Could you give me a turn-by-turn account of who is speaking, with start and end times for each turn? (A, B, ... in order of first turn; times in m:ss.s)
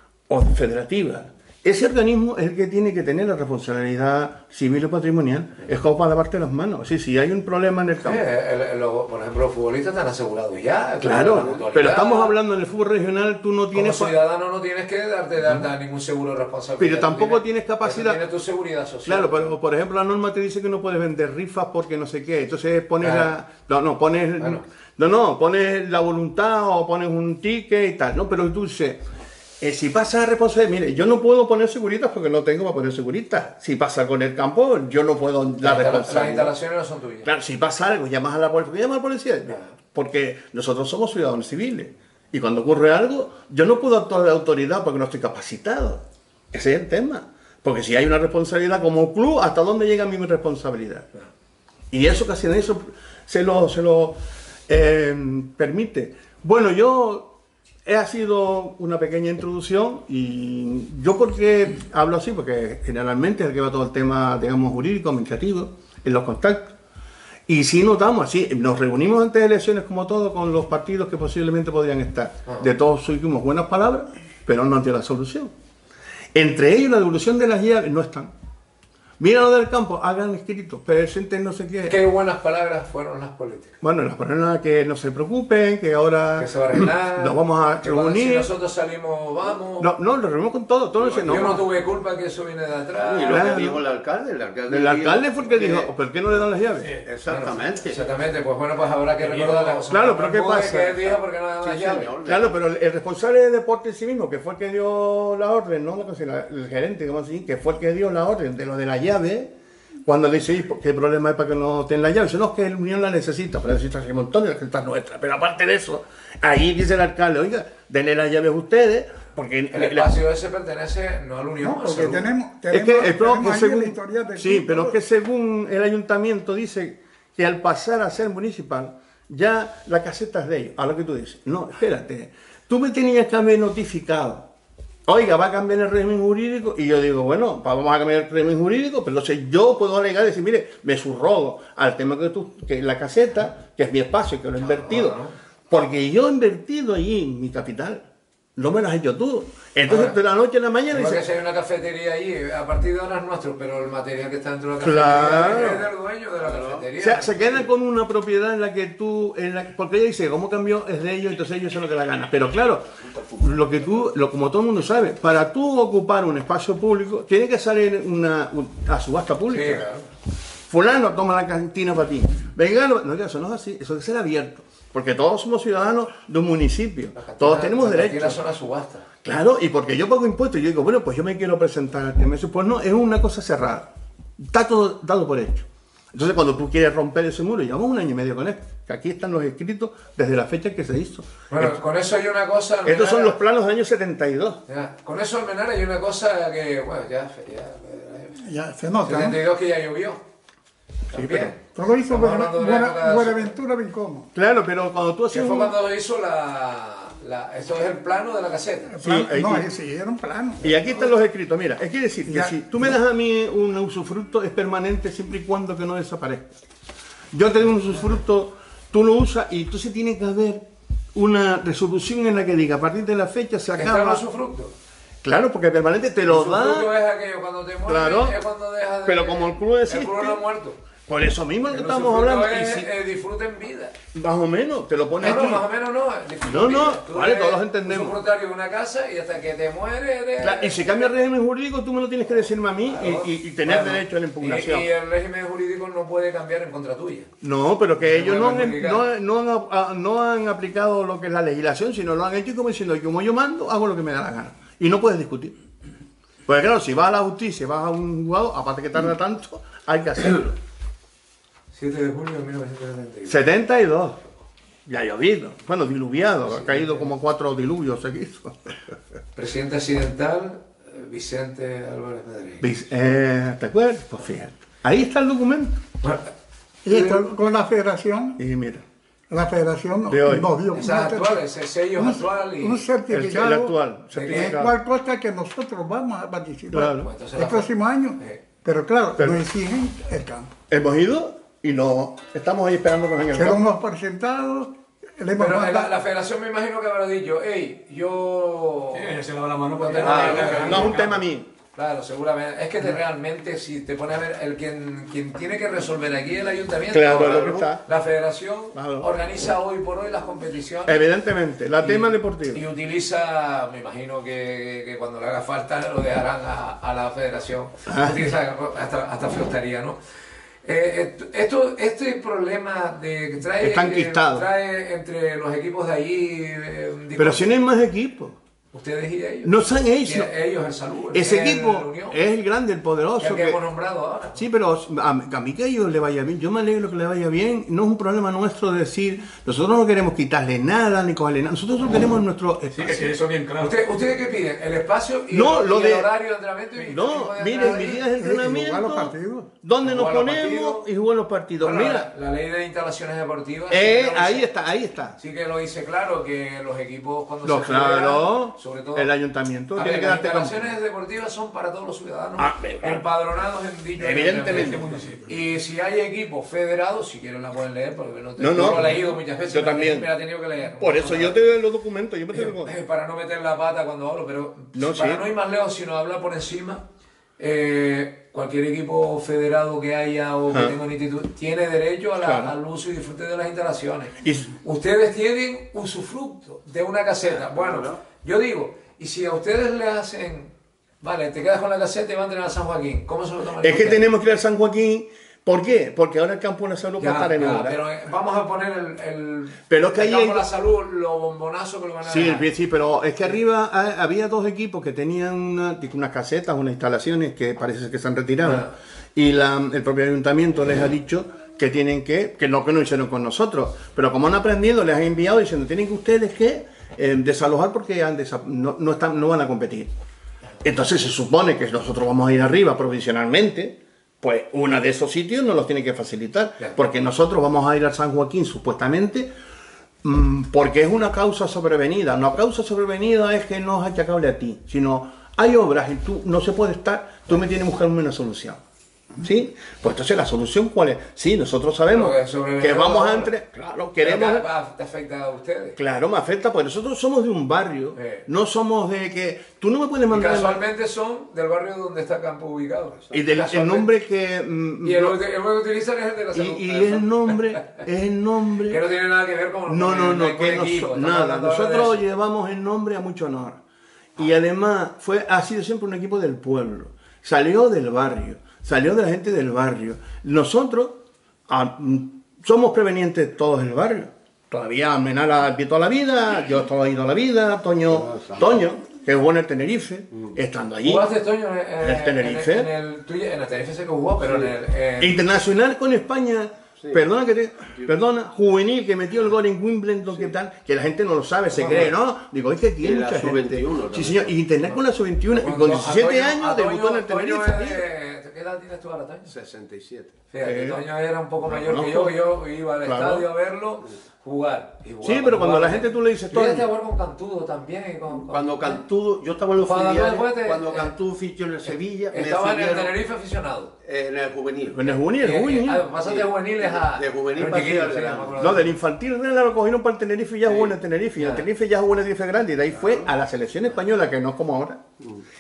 0:00.3-0:08.2 A
0:08.0-0:12.3 B
0:11.0-0:14.2 A
0:13.7-0:19.5 B
0:16.8-0:18.2 A
0:19.0-0:29.0 A
0:23.0-0:23.3 B
0:24.4-0:24.6 B
0:29.6-0:36.5 A
0:35.6-0:37.3 B
0:37.2-0:51.1 A
0:51.9-0:57.3 A
0:57.9-1:06.8 A
1:07.5-1:15.5 A
1:16.3-1:18.3 A
1:19.2-1:22.0 A
1:21.8-1:23.7 B
1:23.8-1:28.5 A
1:26.4-1:29.9 B
1:29.8-1:31.6 A
1:31.0-1:31.6 C
1:31.2-1:33.6 B
1:33.0-1:36.4 C
1:33.3-1:33.8 A
1:34.7-1:36.9 A
1:36.8-1:37.1 D
1:37.0-1:38.1 C
1:37.3-1:42.1 B
1:39.2-1:39.8 D
1:39.9-1:49.5 A
1:41.9-1:42.6 C
1:50.1-2:00.2 A
1:59.7-2:02.3 B
2:01.6-2:05.0 E
2:02.7-2:14.5 A
2:15.1-2:31.2 A
2:24.6-2:25.4 B
2:29.9-2:30.2 B
2:30.9-2:37.7 B
2:34.8-2:35.9 A
2:36.4-2:36.9 C
2:37.0-2:49.9 A
2:49.5-2:50.1 B
2:50.7-2:58.4 A
2:57.2-2:59.1 B
2:59.2-3:11.8 A
3:11.5-3:13.4 B
3:12.8-3:14.6 A
3:14.7-3:18.4 B
3:18.4-3:19.4 E
3:19.0-3:20.2 B
3:21.1-3:23.5 B
3:21.1-3:21.5 A
3:21.8-3:24.3 E
3:24.3-3:25.7 A
3:25.3-3:28.9 B
3:28.9-3:30.7 E
3:29.0-3:29.7 A
3:30.6-3:36.6 A
3:32.3-3:32.6 E
3:37.3-3:44.2 A
3:43.8-3:44.7 B
3:45.2-3:46.9 A
3:46.3-3:50.8 B
3:47.9-3:48.4 A
3:49.0-3:50.4 A
3:51.1-3:52.9 A
3:51.7-3:54.0 B
3:54.1-3:55.7 A
3:55.2-4:01.1 B
3:56.4-3:58.2 A
4:00.4-4:04.9 A
4:02.9-4:07.3 B
4:07.4-4:15.6 A
4:08.0-4:09.0 B
4:16.5-4:20.6 A
4:21.7-4:23.4 B
4:23.3-4:24.2 A
4:24.9-4:28.9 A
4:26.5-4:27.1 B
4:29.4-4:32.6 B
4:32.6-4:35.8 A
4:36.0-4:36.3 B
4:36.8-4:38.4 E
4:36.9-4:37.2 A
4:38.4-4:38.8 A
4:39.3-4:41.4 E
4:40.1-4:40.5 A
4:40.7-4:42.9 B
4:42.0-4:50.5 E
4:43.1-4:44.7 A
4:44.1-4:44.6 B
4:46.7-4:47.1 A
4:47.0-4:48.4 B
4:50.7-4:53.6 A
4:53.3-4:55.9 E
4:55.4-4:59.2 B
4:58.9-5:01.1 D
4:59.8-5:01.2 B
5:00.0-5:01.5 A
5:01.8-5:11.0 B
5:06.9-5:07.8 A
5:08.8-5:09.1 A
5:10.9-5:12.6 A
5:11.8-5:20.0 B
5:17.9-5:18.3 A
5:20.6-5:27.5 B
5:23.6-5:24.5 A
5:27.2-5:28.4 A
5:28.7-5:32.2 B
5:29.4-5:30.3 A
5:31.1-5:33.6 A
5:33.2-5:34.4 B
5:34.4-5:43.1 A
5:42.8-5:43.8 D
5:43.6-5:48.0 B
5:45.3-5:46.1 A
5:46.8-5:52.1 A
5:47.6-5:49.5 E
5:49.8-5:50.9 B
5:51.6-5:54.5 B
5:53.7-5:55.2 A
5:55.2-5:59.1 B
5:57.4-6:00.7 A
5:59.8-6:11.5 B
6:02.4-6:03.0 A
6:04.0-6:04.9 A
6:04.4-6:05.3 D
6:08.4-6:10.1 A
6:08.7-6:09.0 D
6:10.8-6:12.7 A
6:12.3-6:16.8 B
6:14.7-6:15.3 A
6:17.4-6:34.1 B
6:22.2-6:22.5 A
6:24.2-6:24.5 A
6:27.3-6:28.0 C
6:33.6-6:37.8 A
6:37.0-6:42.5 B
6:39.7-6:40.5 A
6:42.0-6:59.9 A
6:48.4-6:48.7 B
7:00.6-7:09.3 A
7:10.0-7:18.6 A
7:19.2-7:24.5 A
7:21.9-7:23.3 B
7:24.0-7:25.8 B
7:25.8-7:30.6 A
7:28.0-7:28.3 B
7:30.1-7:33.9 B
7:33.1-7:35.2 A
7:34.8-7:37.8 B
7:36.3-7:38.8 A
7:38.6-7:42.0 B
7:39.7-7:43.6 A
7:44.2-8:01.1 A
7:57.9-7:58.5 C
8:00.8-8:05.2 B
8:01.8-8:02.7 A
8:04.2-8:04.5 C
8:05.0-8:17.8 A
8:12.8-8:14.3 C
8:15.3-8:19.3 B
8:19.3-8:20.2 C
8:20.3-8:28.8 B
8:20.4-8:20.8 A
8:21.5-8:22.2 A
8:22.8-8:23.3 A
8:25.0-8:26.7 A
8:28.3-8:33.0 C
8:29.6-8:31.0 B
8:31.7-8:33.7 B
8:33.8-8:34.9 C
8:34.7-8:35.8 A
8:35.2-8:38.7 B
8:35.9-8:38.4 C
8:38.4-8:44.8 A
8:41.2-8:41.5 B
8:42.8-8:43.1 C